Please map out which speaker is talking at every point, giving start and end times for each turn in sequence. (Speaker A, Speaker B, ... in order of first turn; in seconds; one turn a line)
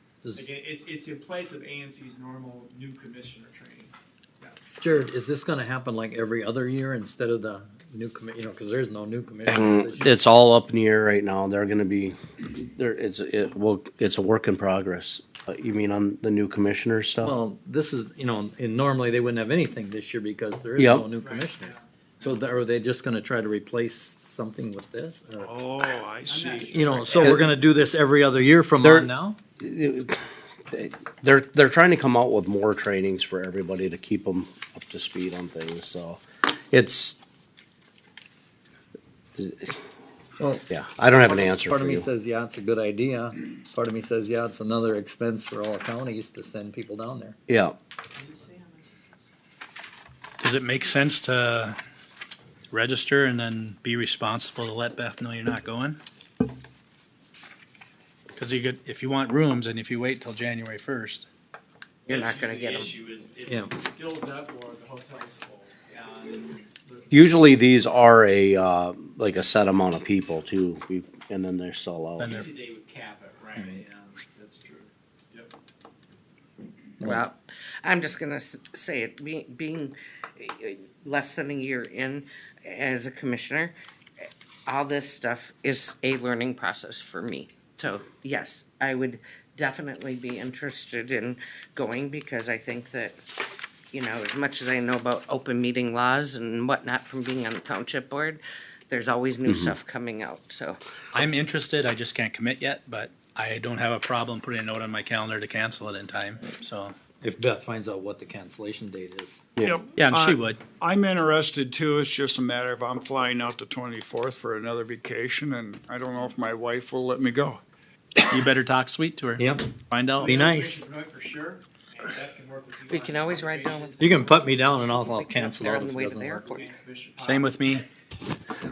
Speaker A: 0.2-0.5
Speaker B: 0.3-4.6
Speaker A: 4.8-10.1
Speaker C: 9.5-17.4
Speaker A: 17.2-25.9
Speaker C: 20.8-21.1
Speaker B: 21.2-22.4
Speaker D: 25.4-27.1
Speaker B: 26.3-27.5
Speaker A: 26.6-29.4
Speaker C: 28.8-29.1
Speaker C: 29.6-37.2
Speaker C: 39.4-39.8
Speaker A: 40.4-40.7
Speaker C: 40.7-42.1
Speaker A: 41.2-47.4
Speaker C: 47.5-47.8
Speaker B: 48.1-49.2
Speaker E: 50.4-51.8
Speaker E: 52.7-56.0
Speaker E: 58.3-61.3
Speaker B: 62.0-67.5
Speaker F: 62.1-62.9
Speaker C: 67.1-72.4
Speaker E: 72.2-72.5
Speaker B: 72.2-75.5
Speaker A: 73.5-73.8
Speaker F: 77.0-93.2
Speaker F: 93.9-100.8
Speaker C: 99.5-99.7
Speaker E: 101.1-106.9
Speaker A: 107.2-109.6
Speaker D: 109.6-117.6
Speaker E: 109.9-110.6
Speaker E: 118.2-120.4
Speaker A: 119.4-120.8
Speaker B: 120.2-124.8
Speaker F: 122.9-126.7
Speaker A: 124.0-126.5
Speaker B: 126.4-127.5
Speaker E: 127.2-127.8